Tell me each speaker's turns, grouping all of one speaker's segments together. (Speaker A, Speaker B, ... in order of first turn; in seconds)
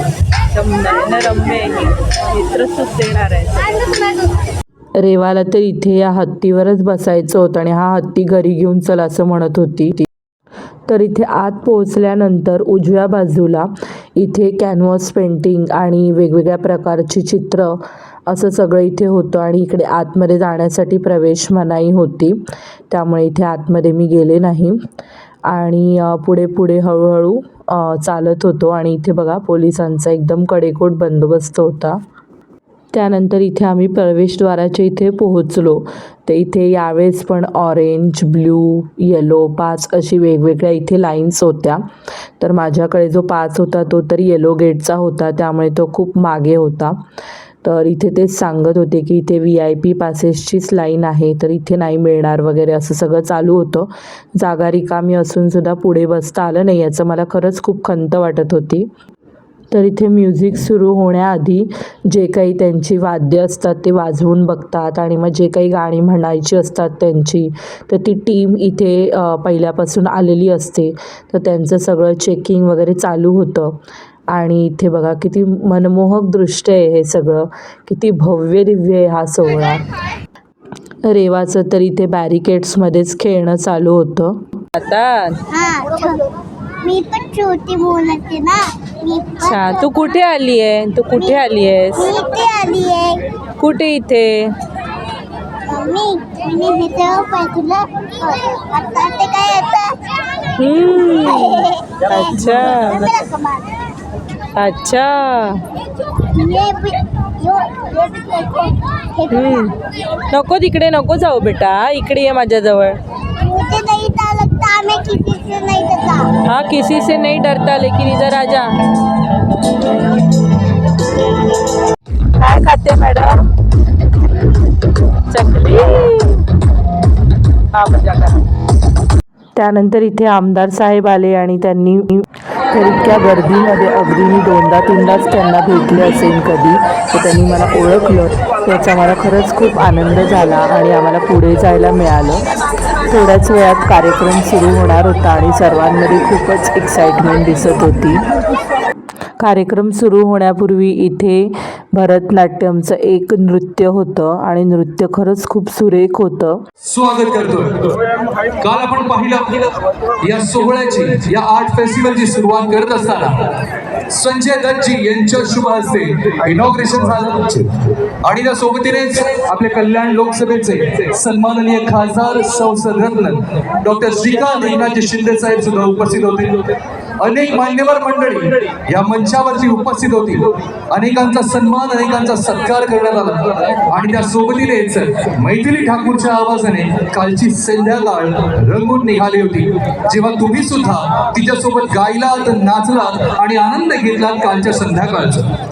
Speaker A: 0.5-3.9, 5.0-10.1, 10.9-24.8, 25.5-32.0, 32.9-41.8, 42.4-47.0, 47.6-58.9, 59.7-73.8, 74.3-79.9, 81.0-85.5, 89.4-92.2, 93.6-94.6, 100.6-103.2, 104.6-105.7, 109.3-113.0, 116.5-118.9, 122.3-123.5, 125.3-126.5, 127.7-128.4, 129.6-142.4, 143.1-148.2, 149.4-156.6
Speaker B: 85.5-89.8, 92.0-93.3, 95.7-100.1, 101.3-103.7, 106.3-109.7, 113.4-116.3
Speaker C: 156.8-158.1, 158.6-159.7, 160.2-163.5, 164.1-195.5